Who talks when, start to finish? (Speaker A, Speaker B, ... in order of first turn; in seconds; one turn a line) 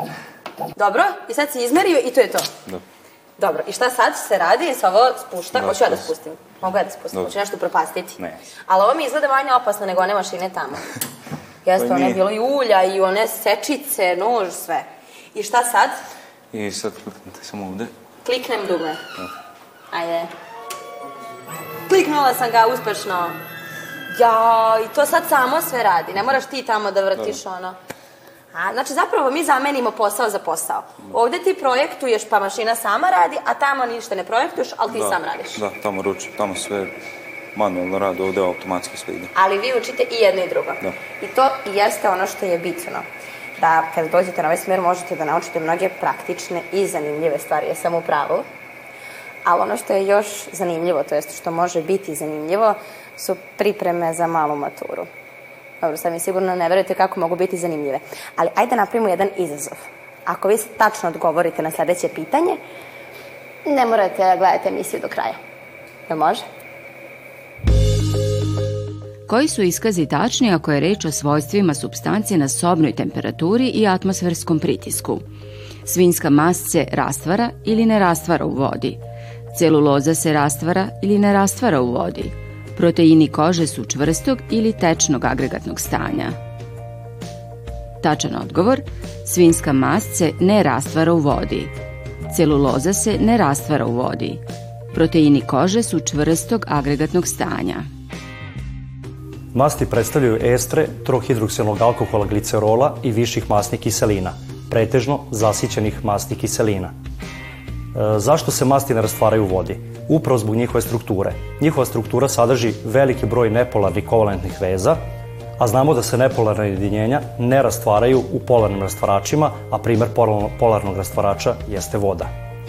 Speaker A: 0.8-2.5
Speaker A: 3.4-10.8
Speaker B: 5.5-6.1
Speaker A: 11.6-15.9
Speaker B: 11.7-12.3
Speaker B: 16.5-17.9
Speaker A: 18.2-19.0
Speaker A: 19.9-20.3
Speaker A: 21.9-23.4
Speaker A: 24.1-27.8
Speaker A: 28.5-35.6
Speaker B: 34.9-36.9
Speaker B: 37.5-39.3
Speaker A: 39.3-43.0
Speaker A: 43.6-48.4
Speaker A: 49.4-55.1
Speaker A: 55.8-62.6
Speaker A: 63.6-65.4
Speaker A: 66.1-66.4
Speaker C: 69.3-75.2
Speaker C: 75.8-79.0
Speaker C: 79.5-86.3
Speaker C: 88.0-91.7
Speaker C: 92.3-94.4
Speaker C: 94.9-97.8
Speaker D: 99.5-106.9
Speaker D: 107.9-115.0
Speaker D: 115.6-122.3